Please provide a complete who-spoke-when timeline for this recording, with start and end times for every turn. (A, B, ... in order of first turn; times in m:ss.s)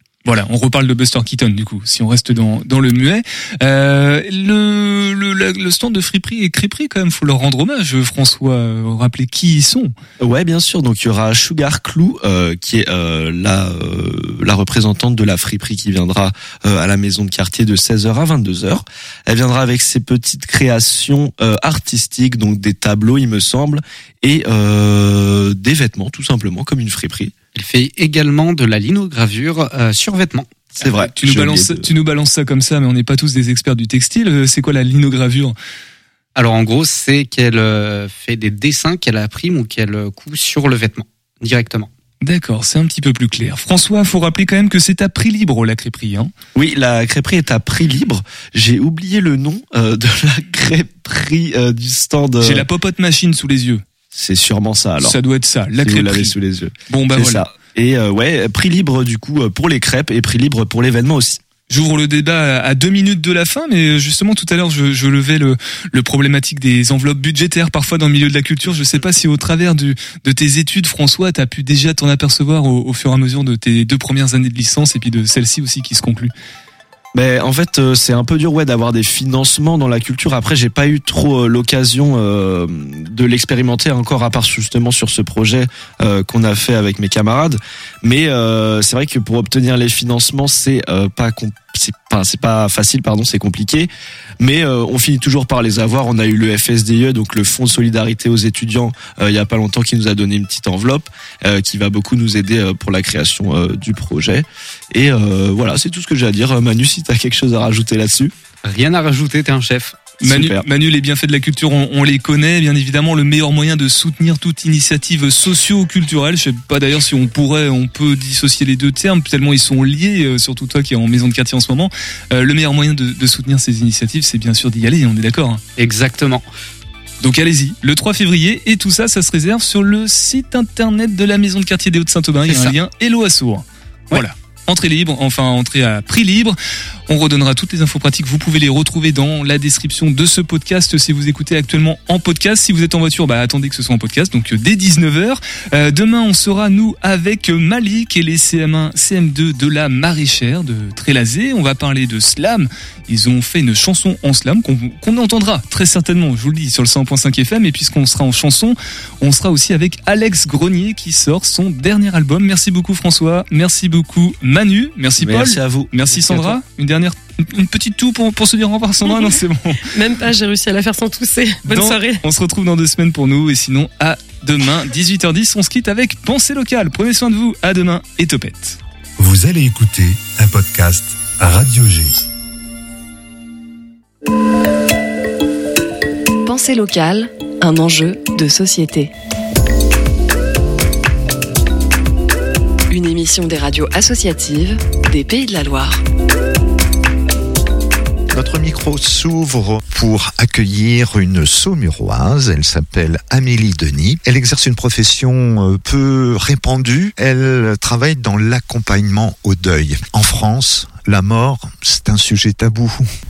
0:00.2-0:09.9 A
0:10.2-0:27.3 B
0:27.5-0:30.7 C
0:30.8-0:31.9 B
0:30.8-0:35.6 A
0:36.4-0:41.9 C
0:42.2-0:46.3 A
0:46.5-0:52.6 B
0:52.4-0:53.8 A
0:54.1-0:55.2 B
0:55.0-0:56.3 A
0:55.8-1:01.4 B
0:56.9-0:57.5 A
1:01.7-1:16.3 A
1:17.1-1:48.3 B
1:48.6-1:50.1 C
1:50.2-1:50.6 B
1:50.2-2:05.6 A
2:05.8-2:06.4 C
2:07.2-2:16.6 A
2:12.5-2:12.7 C
2:17.1-2:49.9 A
2:45.2-2:46.6 B
2:49.9-2:52.2 D
2:51.6-2:58.8 A
2:59.2-3:02.2 E
3:06.4-3:09.1 F
3:12.9-3:16.0 F
3:18.3-3:33.1 G